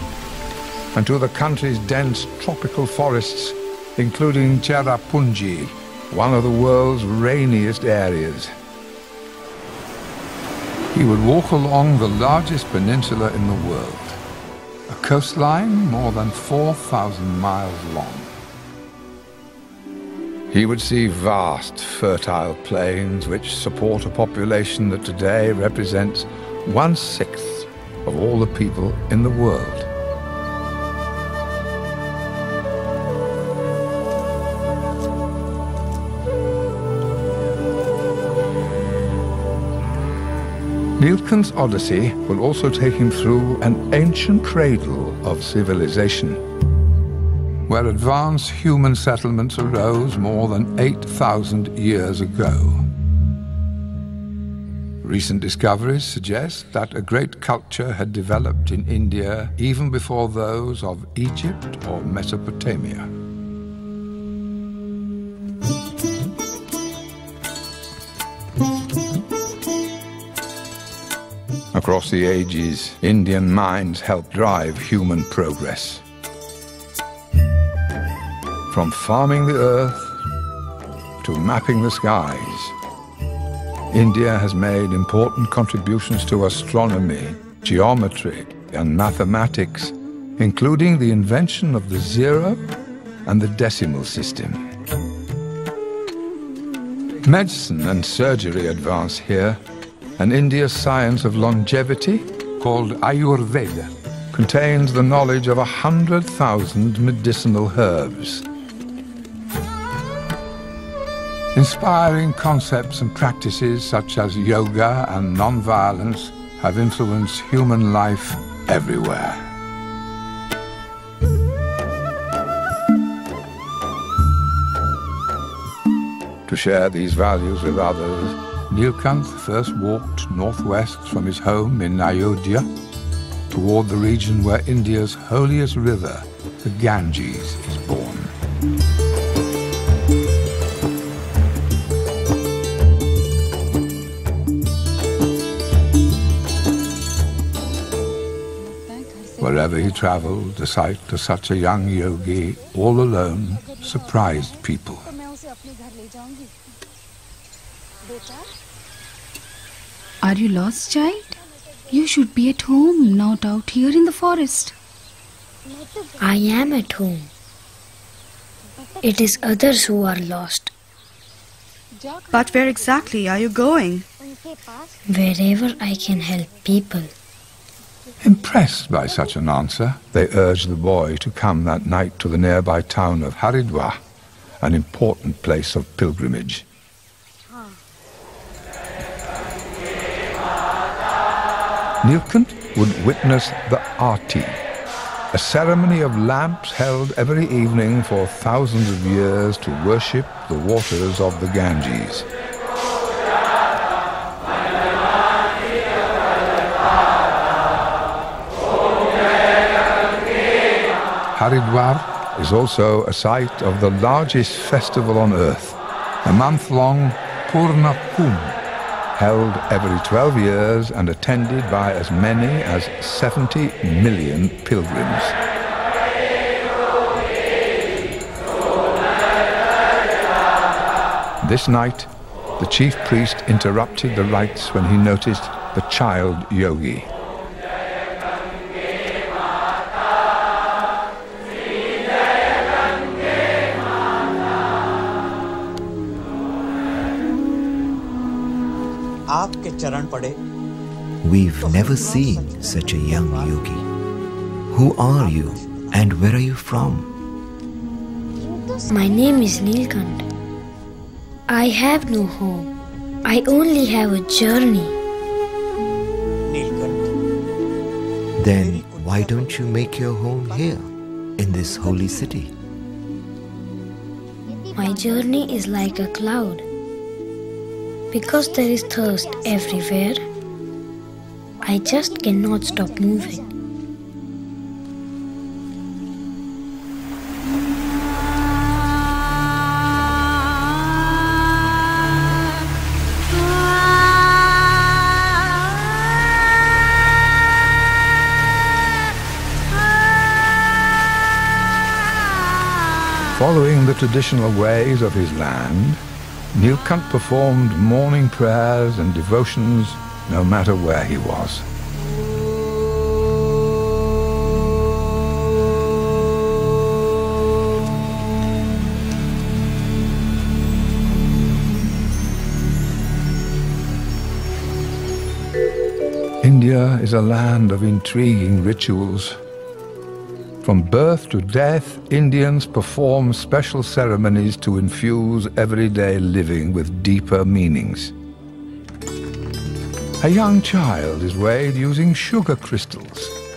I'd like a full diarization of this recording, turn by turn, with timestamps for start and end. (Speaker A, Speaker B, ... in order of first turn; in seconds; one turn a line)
Speaker A: 0.9-8.5
Speaker A: 10.9-14.2
Speaker A: 14.9-18.3
Speaker A: 20.5-29.9
Speaker A: 41.0-46.4
Speaker A: 47.7-52.9
Speaker A: 55.0-63.1
Speaker A: 71.7-76.0
Speaker A: 78.7-80.2
Speaker A: 81.2-82.7
Speaker A: 83.9-92.7
Speaker A: 93.2-94.7
Speaker A: 97.2-99.6
Speaker A: 100.2-108.5
Speaker A: 111.5-119.4
Speaker A: 126.5-132.7
Speaker A: 133.5-138.3
Speaker B: 148.8-149.4
Speaker A: 149.4-155.1
Speaker B: 160.2-161.4
Speaker B: 161.9-164.7
Speaker C: 166.2-167.3
Speaker C: 169.0-170.7
Speaker D: 172.3-174.1
Speaker C: 175.1-177.1
Speaker A: 178.2-184.0
Speaker A: 184.6-186.6
Speaker A: 192.0-194.6
Speaker A: 195.3-202.3
Speaker A: 211.3-218.6
Speaker A: 219.1-225.4
Speaker A: 231.4-237.1
Speaker D: 249.3-250.4
Speaker E: 251.2-253.8
Speaker E: 254.7-257.1
Speaker C: 258.9-260.3
Speaker C: 261.5-262.7
Speaker C: 263.2-265.0
Speaker D: 266.5-267.1
Speaker E: 268.4-272.5
Speaker C: 274.8-276.6
Speaker C: 278.1-280.2
Speaker C: 281.6-283.4
Speaker A: 303.4-306.0
Speaker A: 306.5-311.6
Speaker A: 326.4-329.4
Speaker A: 330.6-338.1
Speaker A: 340.2-343.4